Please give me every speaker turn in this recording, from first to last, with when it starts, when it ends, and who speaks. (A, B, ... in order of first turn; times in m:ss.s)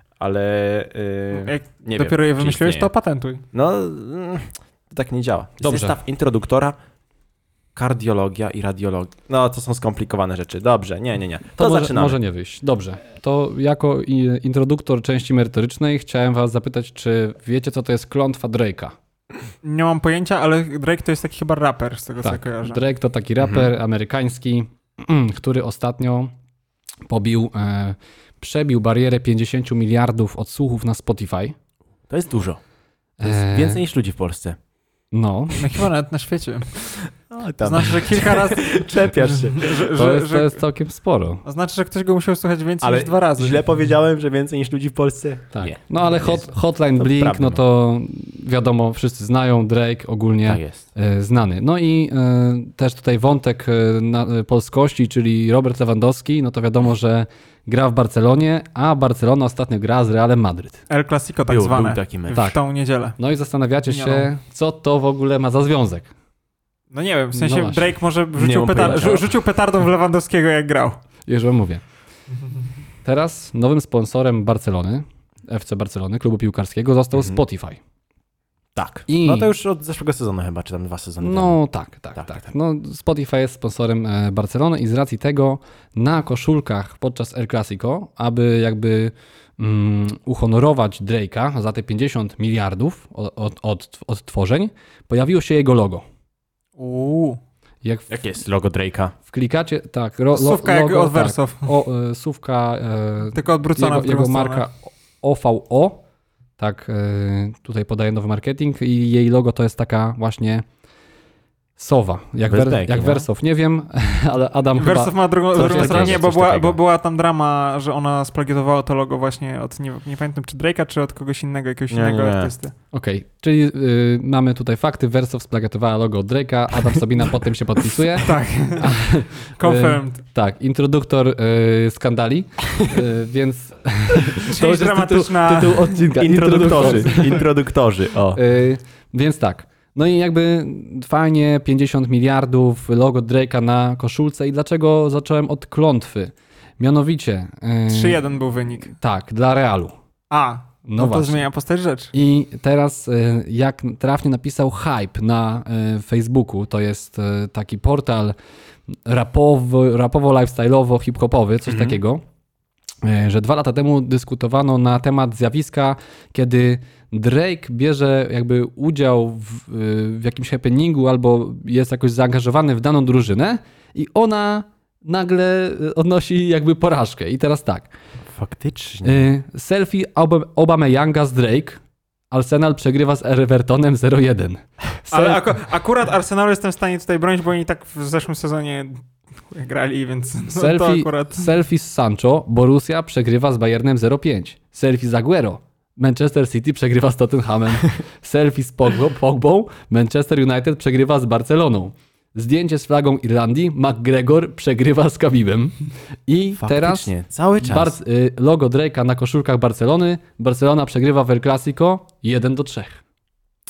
0:00.2-0:02.9 A
0:01.3-0:03.4 B
0:03.5-0:06.8 A
0:05.6-0:06.0 C
0:07.7-0:12.2 A
0:11.6-0:18.9 C
0:19.6-0:22.8 B
0:22.2-0:26.3 C
0:23.4-0:23.7 A
0:27.1-0:31.5 C
0:32.1-0:32.6 A
0:33.2-0:33.8 C
0:33.2-0:34.6 A
0:35.1-0:35.6 C
0:35.6-0:40.6 B
0:37.3-0:39.9 A
0:39.9-0:41.4 C
0:41.4-0:43.6 B
0:42.8-0:47.6 A
0:45.5-1:00.8 C
0:50.5-0:50.8 A
1:00.9-1:03.2 B
1:01.5-1:02.5 A
1:03.2-1:06.1 C
1:03.8-1:04.3 B
1:06.9-1:11.0 B
1:07.3-1:07.9 C
1:08.4-1:09.3 A
1:11.2-1:11.8 C
1:13.0-1:17.8 C
1:17.1-1:17.4 A
1:18.7-1:21.6 A
1:19.1-1:19.5 C
1:21.2-1:36.0 C
1:22.2-1:22.4 A
1:36.8-1:37.4 B
1:37.8-1:38.1 C
1:38.1-1:39.1 A
1:39.2-1:46.0 C
1:40.3-1:41.7 B
1:43.3-1:44.6 B
1:46.6-1:50.6 C
1:51.8-1:56.2 C
1:52.5-1:53.3 A
1:54.8-2:02.7 B
1:55.5-1:56.8 A
2:01.9-2:02.5 A
2:02.9-2:17.4 C
2:08.2-2:10.2 B
2:14.4-2:15.9 B
2:16.1-2:18.4 A
2:18.3-2:28.2 C
2:27.9-2:28.9 B
2:28.8-2:29.9 C
2:30.3-2:32.1 B
2:30.8-2:31.4 C
2:32.1-2:38.3 C
2:39.0-2:42.2 C
2:41.6-2:42.0 A
2:43.0-2:57.9 C
2:58.3-2:59.3 A
2:59.0-3:01.8 C
3:02.3-3:05.5 C
3:05.1-3:11.5 B
3:10.5-3:25.7 C
3:26.3-3:33.0 C
3:26.6-3:28.0 A